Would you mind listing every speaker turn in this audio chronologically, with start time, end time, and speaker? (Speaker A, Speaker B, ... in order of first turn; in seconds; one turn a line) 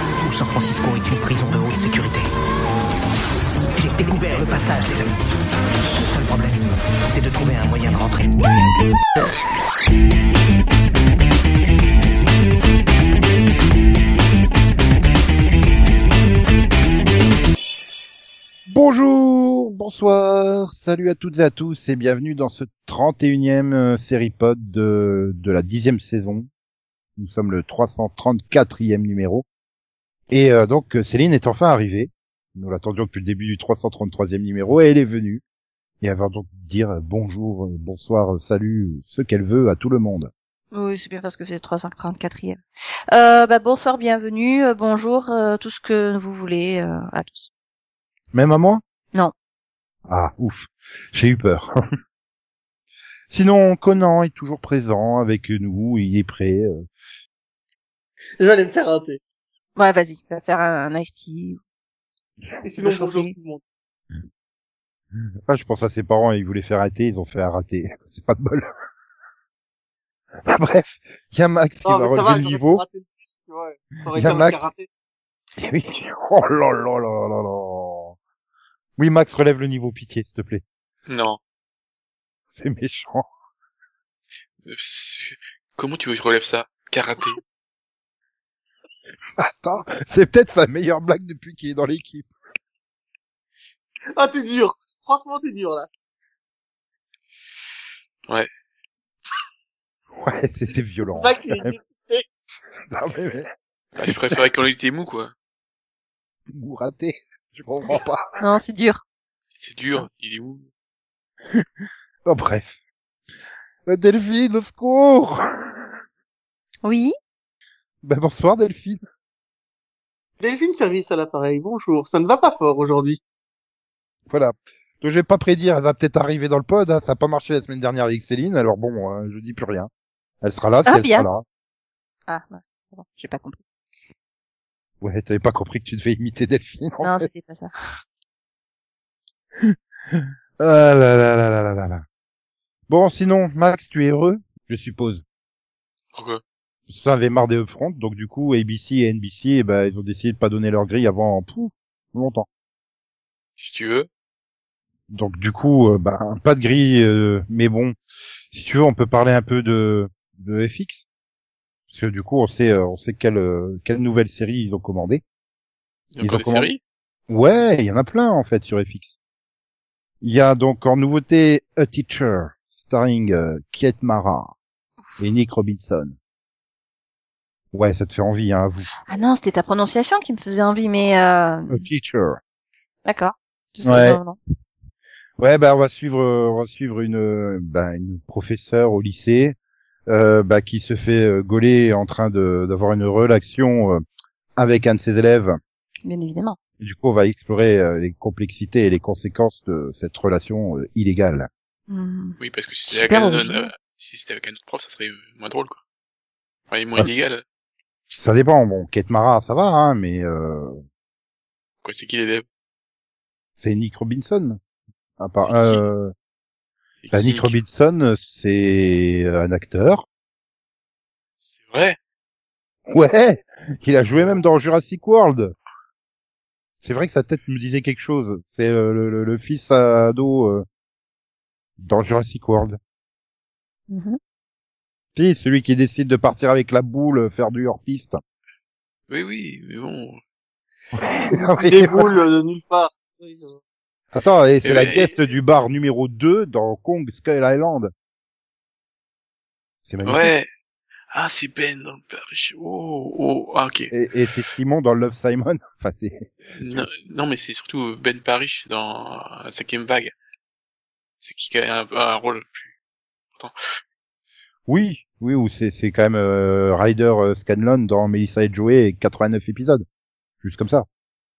Speaker A: 0.2-2.3
Speaker A: 3.8-5.2
Speaker A: 5.9-8.7
Speaker B: 18.7-26.5
Speaker B: 27.1-29.4
Speaker B: 30.3-35.4
Speaker B: 36.0-40.3
Speaker C: 40.7-42.6
Speaker C: 43.1-47.5
Speaker B: 48.3-48.8
Speaker B: 50.1-51.7
Speaker B: 53.3-56.9
Speaker D: 58.4-59.2
Speaker C: 59.8-61.6
Speaker D: 62.6-63.6
Speaker C: 62.8-63.3
Speaker B: 65.5-68.7
Speaker B: 70.4-72.8
Speaker D: 71.8-74.9
Speaker B: 74.1-74.7
Speaker B: 75.6-78.2
Speaker B: 79.0-80.6
Speaker E: 81.1-81.4
Speaker B: 82.5-83.3
Speaker E: 84.6-87.4
Speaker B: 89.4-92.3
Speaker D: 94.1-95.9
Speaker B: 100.2-101.8
Speaker D: 101.1-102.2
Speaker B: 102.9-104.3
Speaker E: 104.0-105.3
Speaker B: 106.5-108.4
Speaker C: 108.4-109.0
Speaker E: 109.5-110.7
Speaker B: 112.2-112.7
Speaker B: 113.8-115.4
Speaker C: 116.8-117.1
Speaker B: 118.0-119.0
Speaker D: 120.4-123.2
Speaker B: 124.3-129.9
Speaker B: 130.4-131.4
Speaker C: 130.8-131.3
Speaker C: 132.3-133.6
Speaker B: 135.0-137.3
Speaker C: 137.0-137.7
Speaker B: 139.6-142.0
Speaker B: 142.9-145.2
Speaker E: 146.1-146.4
Speaker B: 146.9-152.5
Speaker E: 153.6-154.1
Speaker B: 155.1-157.9
Speaker B: 158.5-161.1
Speaker B: 161.9-165.2
Speaker E: 166.1-166.8
Speaker B: 166.2-166.7
Speaker B: 167.3-169.2
Speaker B: 170.2-174.5
Speaker B: 175.2-176.2
Speaker B: 177.7-178.9
Speaker C: 179.1-181.8
Speaker B: 181.7-182.4
Speaker C: 183.0-184.4
Speaker B: 183.8-184.2
Speaker B: 185.4-189.6
Speaker B: 190.1-194.0
Speaker B: 194.6-195.6
Speaker C: 196.0-196.6
Speaker B: 196.8-201.5
Speaker C: 201.9-203.7
Speaker E: 202.4-205.8
Speaker E: 206.7-207.4
Speaker B: 208.1-210.8
Speaker E: 211.8-212.4
Speaker B: 213.6-214.6
Speaker B: 215.2-216.1
Speaker E: 215.4-215.8
Speaker E: 217.0-217.6
Speaker B: 217.1-220.0
Speaker E: 221.4-222.0
Speaker B: 222.9-225.5
Speaker B: 226.8-230.7
Speaker B: 231.8-232.8
Speaker C: 233.9-234.2
Speaker B: 235.2-238.2
Speaker E: 239.1-240.2
Speaker B: 240.9-242.2
Speaker D: 241.6-243.6
Speaker B: 244.1-247.9
Speaker E: 244.6-245.1
Speaker B: 249.9-250.3
Speaker E: 250.0-250.5
Speaker E: 251.1-253.9
Speaker B: 253.9-256.9
Speaker E: 256.6-260.1
Speaker E: 261.2-262.7
Speaker B: 264.7-269.9
Speaker B: 270.4-270.9